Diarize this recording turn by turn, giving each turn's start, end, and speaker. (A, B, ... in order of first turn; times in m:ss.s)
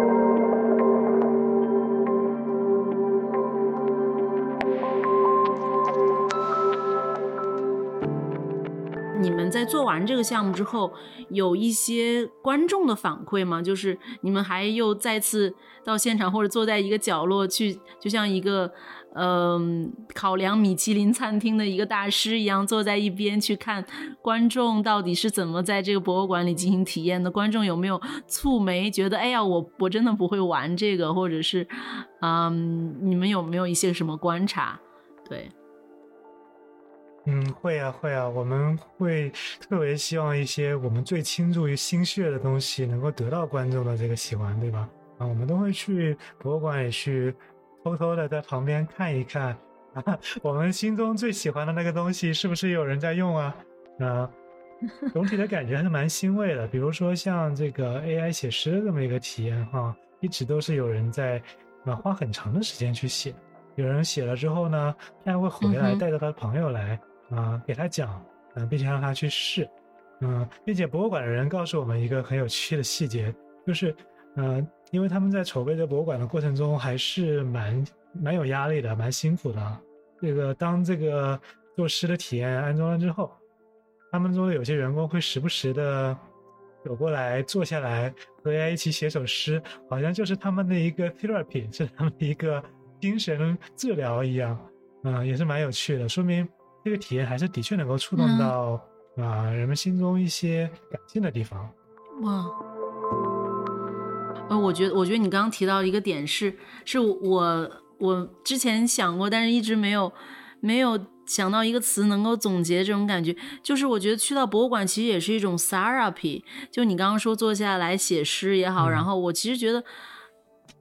0:09.1-0:35.5 A
0:37.2-0:54.3 B
0:55.1-1:23.4 B
1:05.6-1:06.0 A
1:24.1-1:26.2 B
1:26.8-1:41.7 B
1:38.2-1:38.5 A
1:42.2-1:42.5 A
1:44.5-1:59.8 A
1:58.8-1:59.1 B